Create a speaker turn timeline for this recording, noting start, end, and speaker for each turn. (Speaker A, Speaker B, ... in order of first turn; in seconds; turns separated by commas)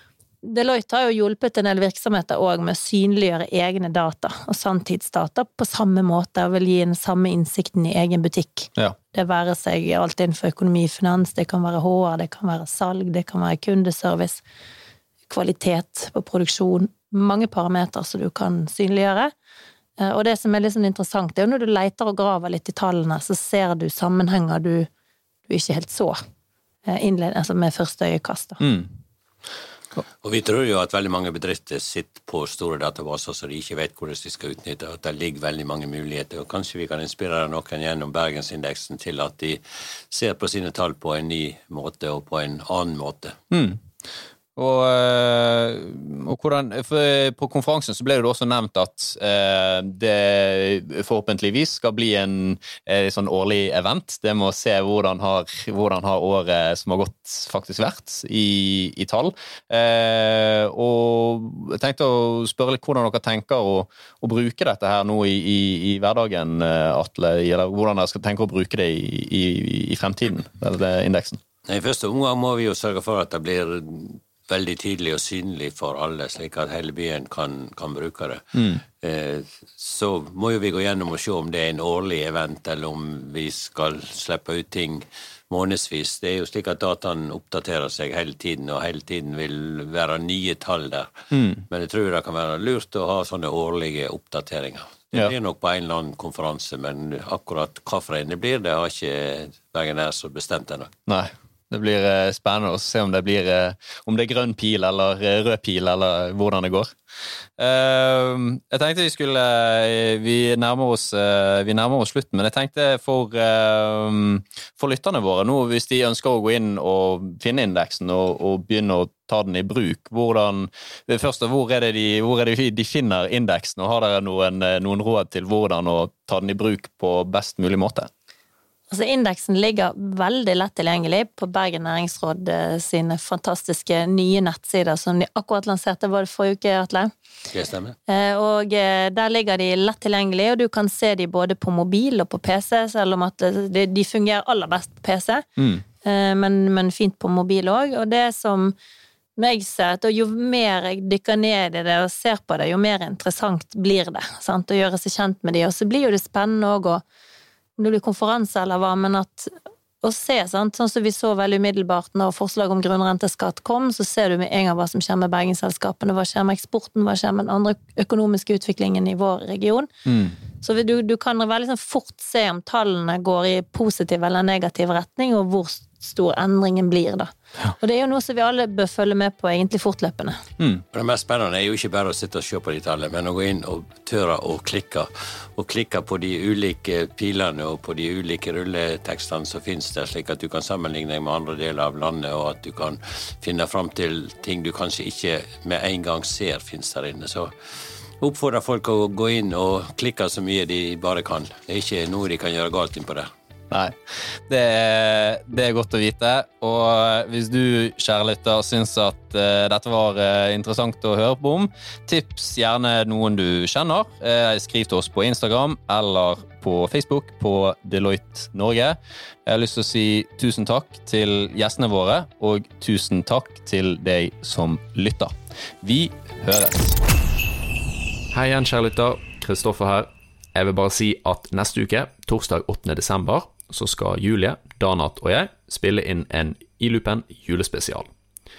Speaker A: 0.4-14.4, Speaker A: 15.3-19.3, Speaker A: 20.0-24.9, Speaker A: 25.5-26.2, Speaker A: 26.9-28.6, Speaker B: 28.6-28.9, Speaker C: 30.2-43.4, Speaker B: 43.5-43.8, Speaker B: 44.6-71.4, Speaker C: 71.7-78.4, Speaker B: 78.5-78.8, Speaker C: 79.0-91.1, Speaker B: 91.3-91.6, Speaker C: 91.7-100.9, Speaker B: 101.1-106.9, Speaker B: 107.6-128.1, Speaker A: 128.9-137.1, Speaker C: 137.5-138.0, Speaker A: 138.1-145.5, Speaker B: 145.6-145.8, Speaker A: 146.0-148.8, Speaker A: 149.4-157.0, Speaker A: 157.8-169.9, Speaker B: 170.1-170.4, Speaker A: 170.6-180.4, Speaker C: 180.9-197.5, Speaker C: 198.2-203.3, Speaker B: 203.7-204.0, Speaker B: 204.5-227.0, Speaker B: 228.3-238.1